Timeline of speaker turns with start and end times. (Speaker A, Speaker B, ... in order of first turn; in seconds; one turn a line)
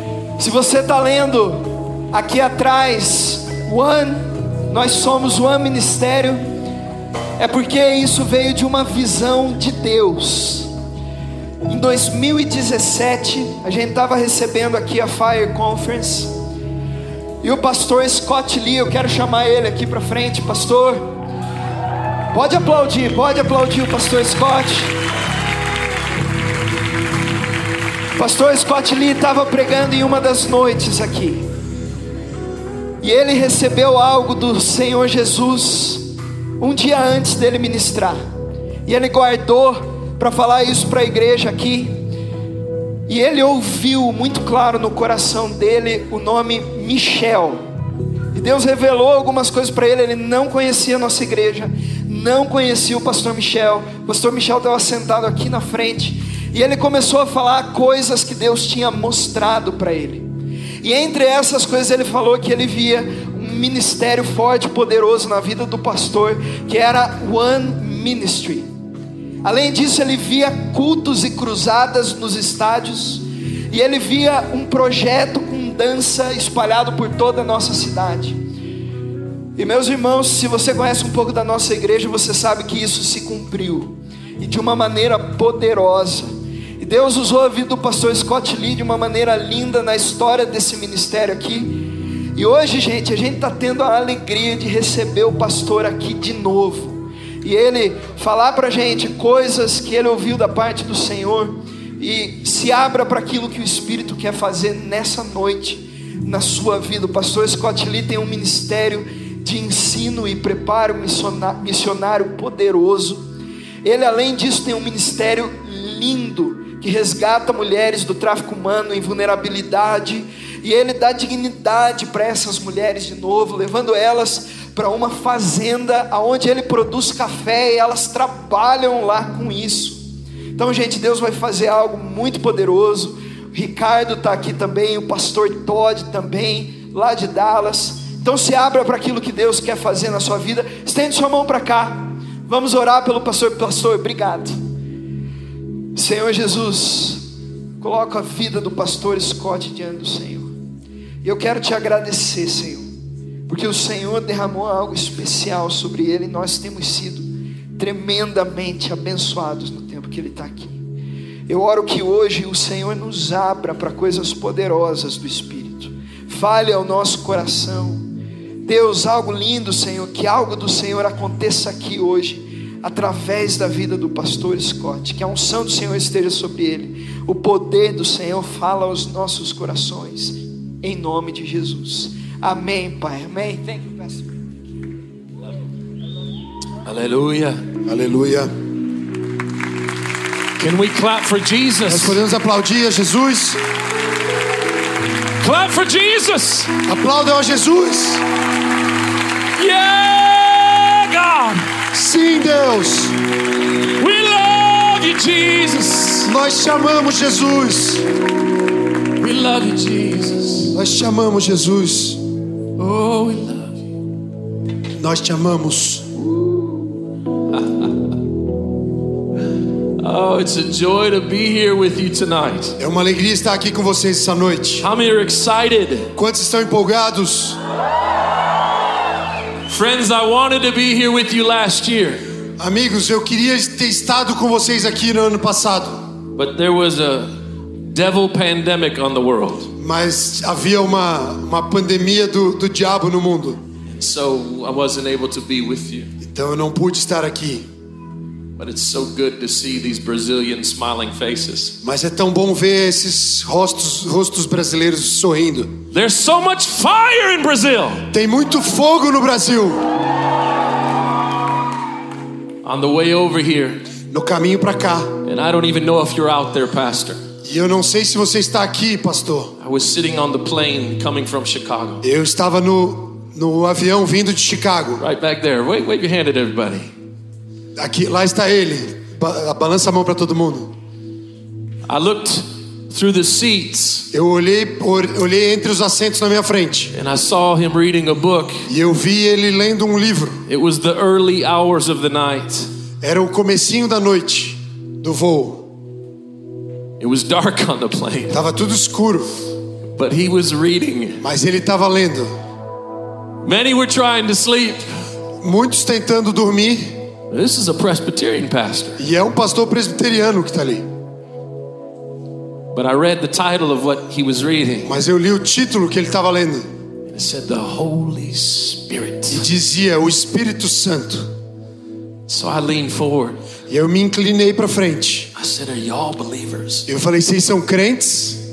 Speaker A: 0.4-6.4
Speaker A: 7.4-10.7
Speaker A: 11.7-16.3
Speaker A: 17.4-21.1
Speaker A: 22.3-24.9
Speaker A: 28.1-31.4
Speaker A: 33.0-38.2
Speaker A: 38.8-41.9
Speaker A: 43.1-47.6
Speaker A: 48.3-60.3
Speaker A: 60.8-68.7
Speaker A: 69.4-78.4
Speaker A: 79.5-113.2
Speaker A: 113.8-130.0
Speaker A: 130.5-144.6
Speaker A: 145.9-147.2
Speaker A: 147.8-150.5
Speaker A: 151.2-152.9
Speaker A: 153.5-160.8
Speaker A: 161.5-168.0
Speaker A: 168.6-184.3
Speaker B: 186.8-187.6
Speaker C: 187.8-188.5
Speaker B: 190.6-192.2
Speaker C: 191.9-193.6
Speaker B: 195.4-196.7
Speaker C: 196.8-198.2
Speaker B: 199.6-201.6
Speaker C: 201.9-203.2
Speaker B: 204.0-206.3
Speaker C: 206.2-208.1
Speaker B: 209.2-210.8
Speaker C: 210.7-212.2
Speaker B: 212.8-213.8
Speaker C: 215.0-216.1
Speaker B: 216.2-216.9
Speaker B: 217.5-217.9
Speaker B: 220.0-222.8
Speaker C: 222.8-224.8
Speaker B: 224.8-226.1
Speaker C: 226.1-227.6
Speaker B: 229.7-232.2
Speaker C: 232.6-236.0
Speaker B: 236.3-237.3
Speaker B: 237.9-239.7
Speaker C: 239.8-243.6
Speaker B: 243.9-246.1
Speaker C: 246.2-247.7
Speaker B: 248.6-251.8
Speaker C: 251.8-255.8
Speaker B: 255.9-258.1
Speaker C: 258.1-259.9
Speaker B: 262.6-263.8
Speaker C: 264.1-265.1
Speaker B: 265.2-267.2
Speaker C: 267.4-269.5
Speaker B: 269.6-272.0
Speaker C: 272.0-275.0
Speaker B: 275.0-276.9
Speaker C: 277.8-280.7
Speaker B: 281.9-284.1
Speaker C: 284.1-286.9
Speaker B: 286.9-288.6
Speaker C: 288.7-290.4
Speaker B: 290.5-292.7
Speaker C: 293.0-295.6
Speaker B: 297.0-298.4
Speaker C: 298.3-299.3
Speaker B: 299.9-301.2
Speaker C: 301.2-302.3
Speaker B: 303.4-304.8
Speaker C: 305.4-307.0
Speaker B: 307.3-309.0
Speaker C: 309.0-310.9
Speaker B: 312.7-314.9
Speaker C: 314.8-316.7
Speaker B: 317.1-319.4
Speaker C: 319.3-321.3
Speaker B: 322.3-323.4
Speaker C: 323.7-325.3
Speaker B: 325.4-326.9
Speaker C: 326.9-328.4